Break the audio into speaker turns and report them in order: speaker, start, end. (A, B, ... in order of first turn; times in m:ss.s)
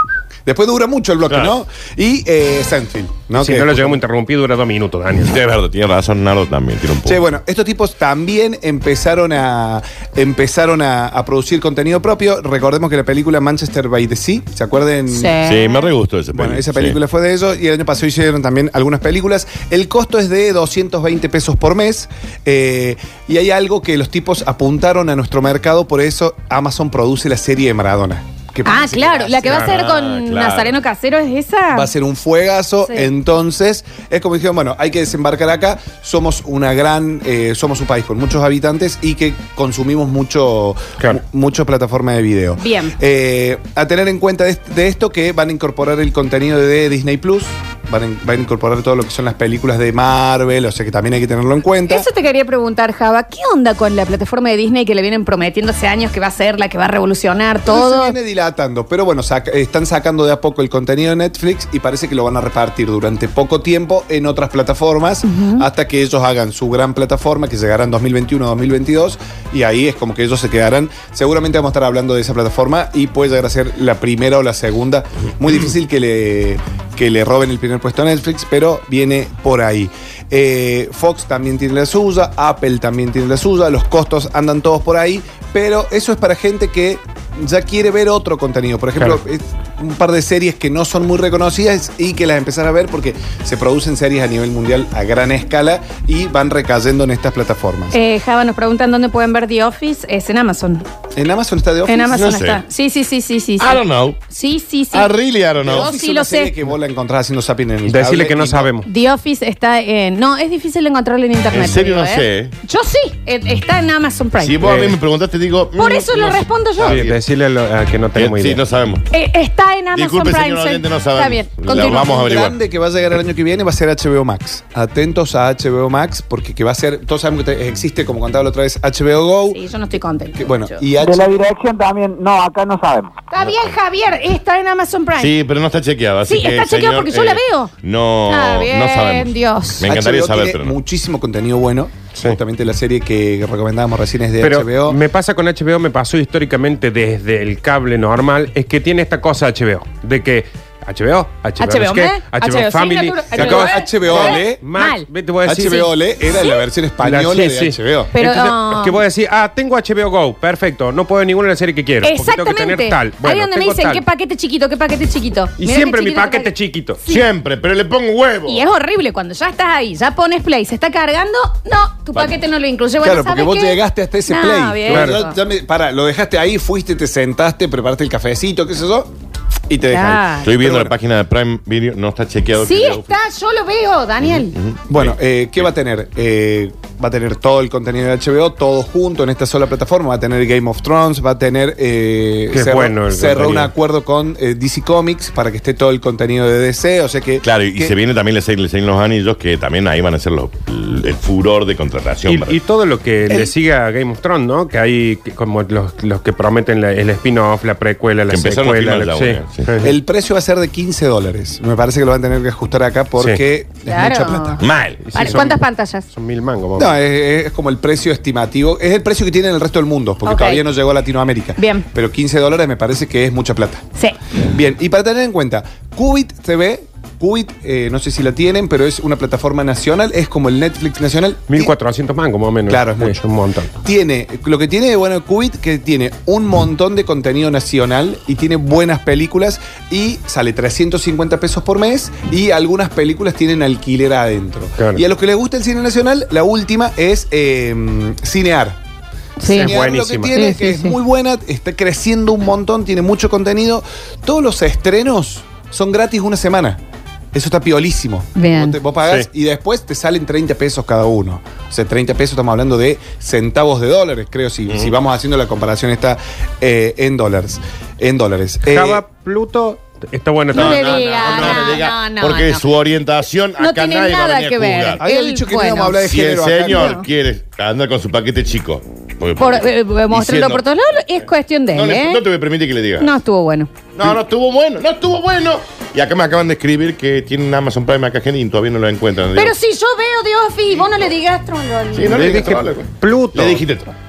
0:00.4-0:04.0 A
0:03.4-0:05.4 B
0:05.3-0:07.2 C
0:07.0-0:15.4 A
0:15.1-0:15.8 D
0:15.4-0:17.0 C
0:16.3-0:29.7 A
0:28.6-0:31.9 D
0:29.0-0:30.7 C
0:31.7-0:52.1 A
0:42.6-0:43.0 D
0:51.9-0:58.1 D
0:57.6-1:38.0 A
1:05.2-1:05.6 D
1:37.9-1:40.8 D
1:41.1-1:42.2 A
1:41.8-1:45.1 D
1:42.1-1:42.6 C
1:43.6-1:44.2 C
1:44.9-1:45.9 C
1:45.6-1:48.7 A
1:45.6-1:46.5 D
1:47.9-1:48.9 B
1:48.8-1:54.9 D
1:51.5-1:52.5 C
1:54.4-1:57.2 C
1:54.6-1:55.0 B
1:55.8-1:57.0 D
1:56.8-1:58.6 B
1:58.1-1:59.1 C
1:59.1-2:02.2 D
1:59.9-2:02.5 C
2:01.7-2:09.6 A
2:09.5-2:10.8 D
2:10.3-2:11.4 A
2:11.0-2:13.2 E
2:13.3-2:15.3 D
2:15.2-2:20.7 C
2:16.2-2:17.7 D
2:18.3-2:19.8 D
2:19.8-2:25.0 A
2:24.4-2:35.9 B
2:31.6-2:35.1 D
2:33.3-2:34.6 A
2:35.4-2:38.1 A
2:37.0-2:44.0 B
2:38.1-2:39.0 D
2:42.0-2:46.5 D
2:45.6-2:47.0 B
2:47.0-2:48.6 C
2:48.5-2:55.4 D
2:53.0-2:59.1 A
2:54.9-2:55.2 B
2:59.7-3:00.9 A
2:59.9-3:00.5 D
3:00.4-3:03.0 C
3:02.6-3:04.5 D
3:04.2-3:05.6 C
3:04.9-3:17.9 A
3:12.5-3:13.7 B
3:17.4-3:22.6 C
3:22.3-3:30.0 B
3:28.3-3:29.7 C
3:29.8-3:34.7 A
3:33.8-3:36.0 D
3:34.6-3:35.1 C
3:35.0-3:36.9 B
3:36.7-3:51.7 A
3:40.2-3:40.6 D
3:41.6-3:41.8 D
3:51.5-3:53.7 B
3:52.7-3:53.2 A
3:53.8-4:08.8 A
4:09.4-4:09.7 D
4:09.4-4:10.3 B
4:09.4-4:16.8 A
4:10.3-4:10.9 D
4:17.3-4:29.0 A
4:18.4-4:18.8 D
4:28.6-4:31.8 B
4:30.5-4:35.0 C
4:30.5-4:32.7 D
4:33.6-4:36.0 D
4:35.0-4:37.0 A
4:36.0-4:40.6 C
4:36.7-4:37.0 D
4:39.4-4:42.2 D
4:41.7-4:43.1 C
4:43.0-4:43.7 D
4:43.9-4:49.5 C
4:49.3-4:52.2 D
4:51.9-4:53.9 C
4:52.1-4:53.6 B